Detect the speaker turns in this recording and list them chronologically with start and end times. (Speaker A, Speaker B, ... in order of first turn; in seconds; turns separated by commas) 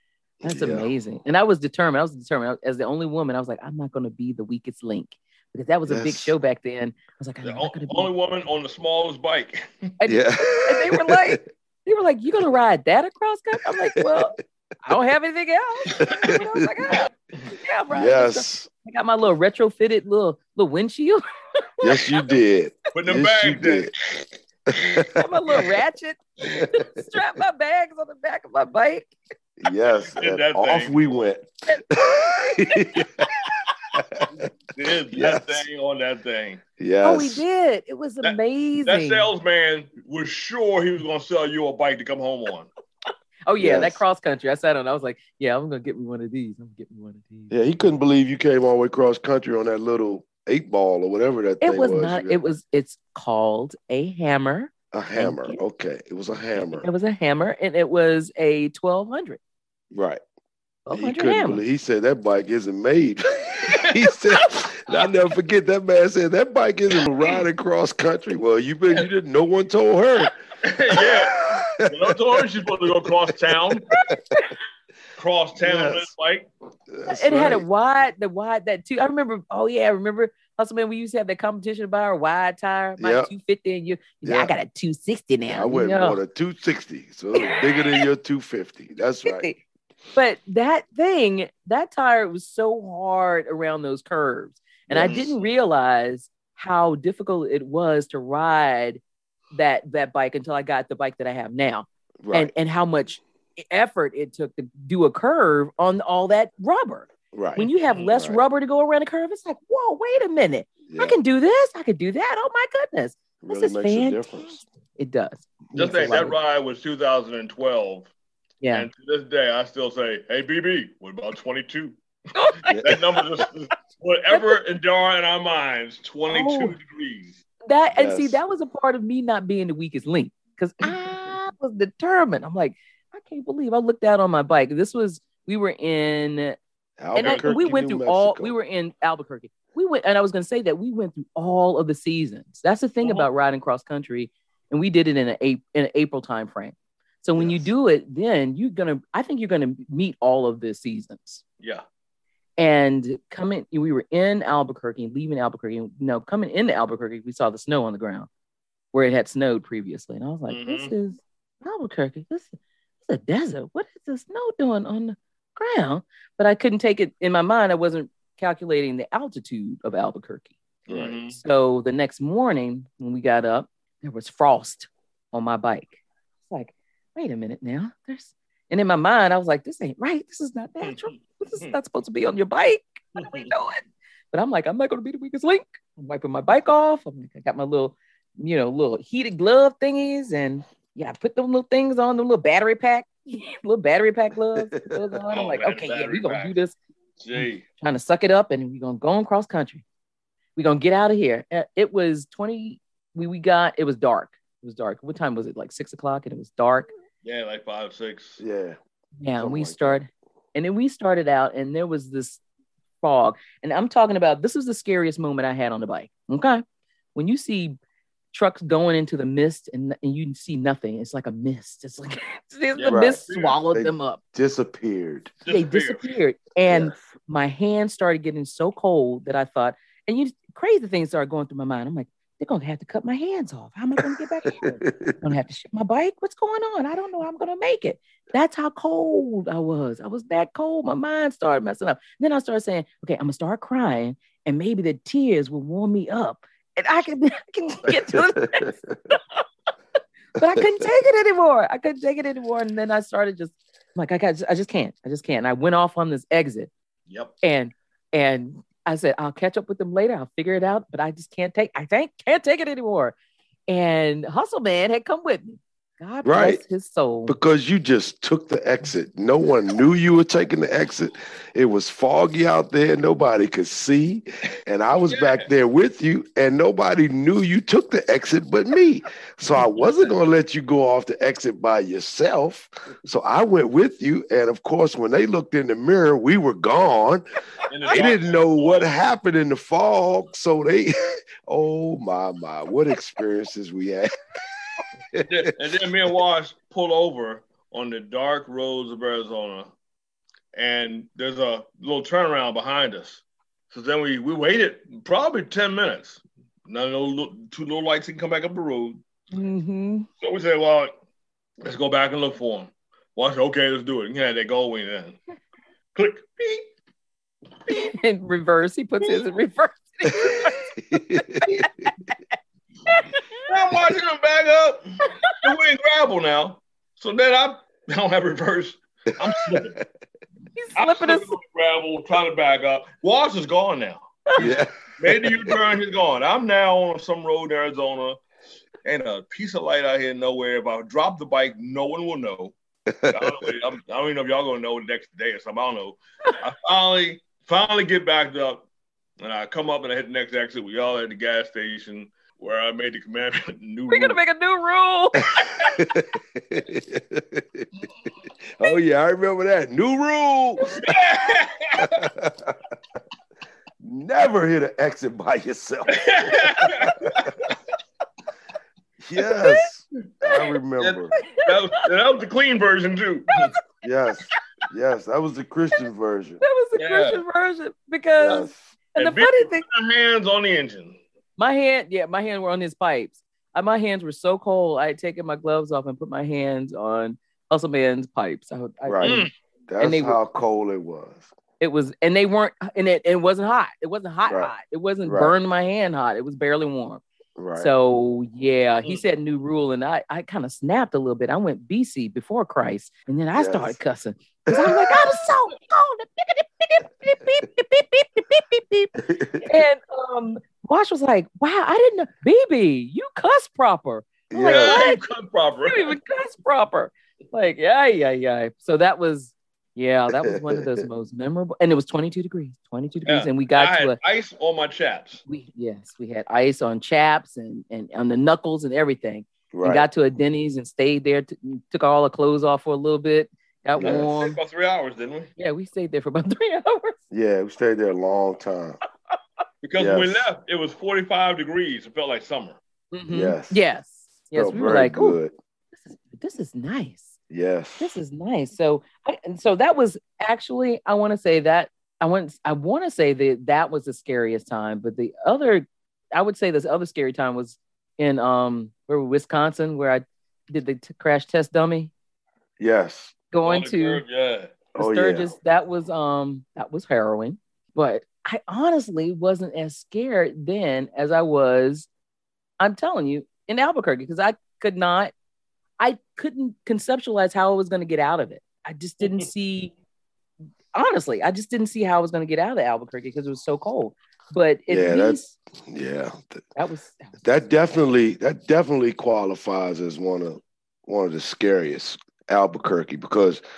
Speaker A: 0.4-0.9, Speaker B: 0.4-8.1, Speaker A: 5.9-6.3, Speaker C: 7.4-9.7, Speaker B: 10.0-21.2, Speaker A: 10.1-11.4, Speaker A: 14.0-14.3, Speaker A: 16.0-17.0, Speaker A: 17.9-18.7, Speaker B: 21.8-22.1, Speaker A: 21.8-23.9, Speaker C: 22.9-24.2, Speaker A: 24.7-25.6, Speaker B: 25.1-29.1, Speaker A: 29.6-33.3, Speaker C: 30.1-31.1, Speaker B: 31.7-32.9, Speaker A: 33.9-34.3, Speaker C: 34.3-36.6, Speaker A: 35.1-35.6, Speaker A: 36.8-37.4, Speaker B: 37.0-39.3, Speaker C: 38.2-42.7, Speaker B: 43.5-48.0, Speaker A: 43.6-44.0, Speaker A: 47.5-52.4, Speaker B: 51.6-55.6, Speaker A: 54.9-56.9, Speaker B: 56.8-59.4, Speaker A: 59.9-60.2, Speaker B: 60.9-61.6, Speaker A: 60.9-70.3, Speaker C: 70.6-73.9, Speaker A: 70.9-71.9, Speaker B: 73.9-74.4, Speaker C: 75.2-76.5, Speaker A: 75.6-76.1, Speaker A: 76.9-77.6, Speaker B: 77.1-86.2, Speaker A: 83.0-83.3, Speaker A: 84.2-84.5, Speaker A: 85.5-89.5, Speaker B: 89.2-89.6, Speaker B: 90.1-99.0, Speaker A: 94.9-95.3, Speaker C: 95.0-95.5, Speaker B: 99.5-116.4, Speaker A: 102.2-102.5, Speaker A: 107.3-108.4, Speaker C: 107.8-108.1, Speaker A: 110.9-111.2, Speaker A: 113.4-114.6, Speaker A: 115.7-116.2, Speaker C: 115.8-118.1, Speaker B: 118.6-118.9, Speaker C: 118.7-122.0, Speaker B: 122.3-122.7, Speaker A: 122.7-123.0, Speaker C: 122.7-127.4, Speaker B: 124.3-124.6, Speaker B: 126.3-126.8, Speaker B: 127.7-136.6, Speaker A: 127.9-128.4, Speaker A: 137.0-138.6, Speaker B: 137.1-151.4, Speaker C: 143.0-143.3, Speaker A: 147.3-147.7, Speaker B: 152.6-158.3, Speaker B: 158.9-170.5, Speaker C: 160.5-160.9, Speaker C: 170.9-171.4, Speaker A: 170.9-171.2, Speaker B: 171.3-196.8, Speaker C: 183.2-183.5, Speaker C: 195.3-196.6, Speaker C: 197.2-197.6, Speaker B: 197.3-199.8, Speaker B: 200.6-206.9, Speaker C: 207.2-208.4, Speaker A: 208.4-208.8, Speaker B: 209.2-212.4, Speaker A: 209.4-210.0, Speaker B: 213.0-216.6, Speaker B: 217.1-217.8, Speaker B: 218.3-224.2, Speaker C: 222.7-223.6, Speaker A: 222.9-225.3, Speaker C: 225.4-226.1, Speaker B: 225.5-249.4, Speaker A: 226.7-227.0, Speaker A: 234.6-235.2, Speaker A: 247.9-249.0, Speaker B: 250.3-256.7, Speaker C: 257.1-257.3, Speaker B: 257.4-263.1, Speaker B: 263.7-267.4, Speaker A: 266.2-266.6, Speaker A: 267.3-287.2, Speaker C: 275.1-275.5, Speaker C: 279.5-280.1, Speaker C: 287.7-288.9, Speaker A: 287.9-294.1, Speaker C: 295.2-299.7, Speaker C: 300.5-309.0, Speaker B: 309.3-310.1, Speaker C: 310.2-310.9, Speaker C: 311.6-315.2, Speaker C: 315.9-316.6, Speaker B: 317.7-320.9, Speaker A: 320.9-321.7, Speaker B: 321.5-322.1, Speaker B: 322.9-323.4, Speaker C: 323.4-329.8, Speaker A: 329.5-329.8, Speaker B: 330.5-331.3, Speaker C: 330.7-338.2, Speaker A: 334.4-335.3, Speaker C: 338.8-342.5, Speaker A: 342.9-343.5, Speaker C: 343.1-348.6, Speaker C: 349.2-354.2, Speaker B: 353.9-355.3, Speaker A: 355.4-357.6, Speaker C: 355.4-355.7, Speaker A: 358.6-360.8, Speaker C: 360.8-361.9, Speaker A: 361.8-362.6, Speaker A: 363.8-367.4, Speaker C: 365.9-367.2, Speaker A: 369.0-371.1, Speaker B: 369.3-369.6, Speaker C: 370.8-373.5, Speaker B: 371.2-371.6, Speaker A: 373.8-376.4, Speaker B: 376.4-379.6, Speaker C: 376.7-377.2, Speaker A: 378.2-378.7, Speaker C: 378.2-381.0, Speaker B: 381.4-390.2, Speaker A: 388.8-391.3, Speaker C: 389.0-389.3, Speaker B: 391.6-397.0, Speaker A: 394.2-394.5, Speaker A: 395.0-395.3, Speaker A: 397.4-397.7, Speaker B: 397.5-415.0, Speaker A: 403.3-403.8, Speaker A: 404.5-404.7, Speaker A: 409.0-409.5, Speaker A: 414.3-414.8, Speaker C: 414.6-416.0, Speaker B: 415.6-424.0, Speaker A: 420.2-420.7, Speaker C: 423.0-425.2, Speaker B: 425.3-434.4, Speaker A: 429.5-429.9, Speaker A: 433.8-434.2, Speaker C: 433.8-435.3, Speaker B: 435.4-437.0, Speaker A: 437.1-438.8, Speaker C: 439.6-442.6, Speaker A: 439.8-440.3, Speaker B: 442.9-445.2, Speaker A: 443.1-443.6, Speaker A: 444.3-445.3, Speaker B: 445.7-447.2, Speaker A: 447.3-447.9, Speaker B: 447.8-461.9, Speaker A: 462.6-463.1, Speaker B: 463.3-464.0, Speaker C: 463.4-464.5, Speaker A: 464.7-465.3, Speaker B: 464.8-471.9, Speaker B: 472.6-475.1, Speaker B: 475.8-479.7, Speaker B: 480.7-485.3, Speaker A: 484.7-486.4, Speaker B: 486.6-487.2, Speaker A: 487.2-493.4